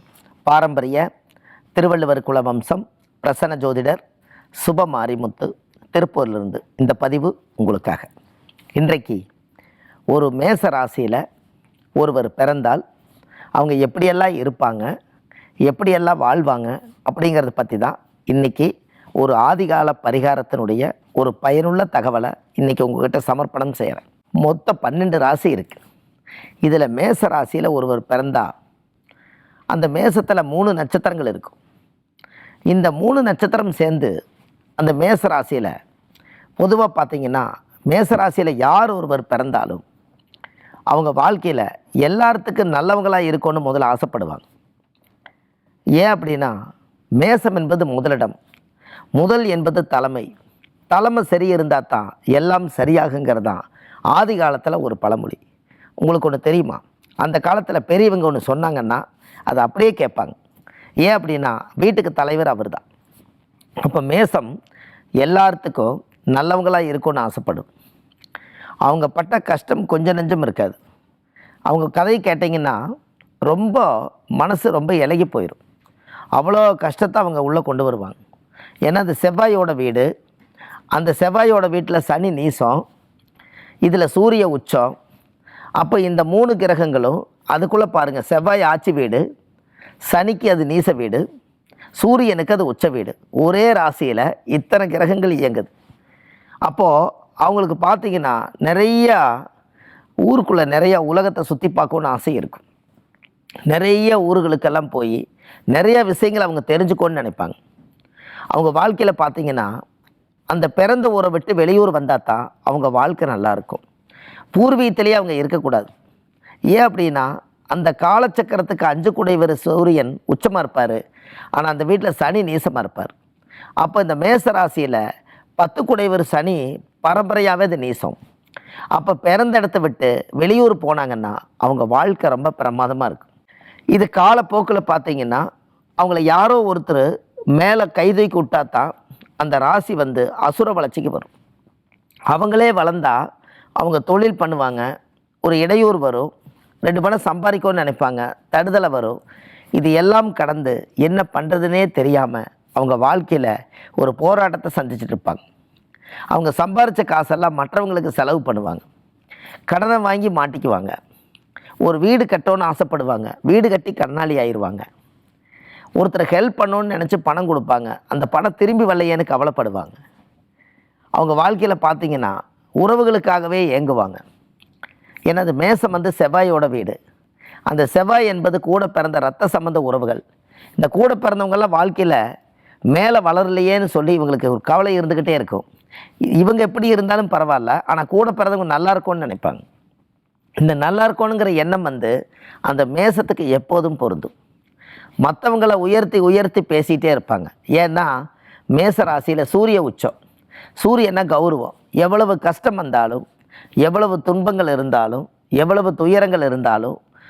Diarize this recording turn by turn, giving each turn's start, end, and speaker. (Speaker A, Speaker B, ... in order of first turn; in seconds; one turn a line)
Speaker A: 0.5-1.1
Speaker A: 1.7-4.0
Speaker A: 4.6-8.1
Speaker A: 8.8-9.2
Speaker A: 10.1-11.2
Speaker A: 12.0-12.8
Speaker A: 13.6-14.9
Speaker A: 15.7-18.7
Speaker A: 19.2-25.8
Speaker A: 26.6-28.5
Speaker A: 29.7-31.6
Speaker A: 32.7-34.1
Speaker A: 34.8-35.7
Speaker A: 36.6-39.8
Speaker A: 40.9-44.4
Speaker A: 46.0-46.5
Speaker A: 47.2-48.4
Speaker A: 49.1-50.3
Speaker A: 50.9-53.6
Speaker A: 54.1-55.4
Speaker A: 56.0-60.3
Speaker A: 61.0-62.8
Speaker A: 63.8-64.5
Speaker A: 65.2-67.7
Speaker A: 68.8-70.8
Speaker A: 71.7-72.8
Speaker A: 73.5-75.6
Speaker A: 76.4-78.2
Speaker A: 78.9-80.1
Speaker A: 80.9-82.8
Speaker A: 83.8-84.9
Speaker A: 85.8-89.2
Speaker A: 90.1-91.2
Speaker A: 92.0-95.7
Speaker A: 96.7-99.2
Speaker A: 100.2-102.6
Speaker A: 103.7-105.2
Speaker A: 105.7-107.6
Speaker A: 108.5-109.7
Speaker A: 110.5-113.8
Speaker A: 114.5-115.9
Speaker A: 116.7-121.0
Speaker A: 121.5-123.1
Speaker A: 123.8-125.0
Speaker A: 125.6-128.2
Speaker A: 128.9-133.3
Speaker A: 133.9-135.4
Speaker A: 136.0-141.3
Speaker A: 142.3-143.2
Speaker A: 143.8-144.8
Speaker A: 145.4-146.3
Speaker A: 146.8-149.2
Speaker A: 149.8-155.4
Speaker A: 156.3-158.8
Speaker A: 159.7-160.9
Speaker A: 161.8-164.8
Speaker A: 166.0-170.0
Speaker A: 171.2-174.2
Speaker A: 175.3-177.0
Speaker A: 177.7-180.2
Speaker A: 180.8-182.2
Speaker A: 182.9-185.6
Speaker A: 186.3-189.6
Speaker A: 190.6-192.1
Speaker A: 192.7-194.3
Speaker A: 195.2-198.1
Speaker A: 198.7-200.1
Speaker A: 200.8-203.2
Speaker A: 203.8-207.0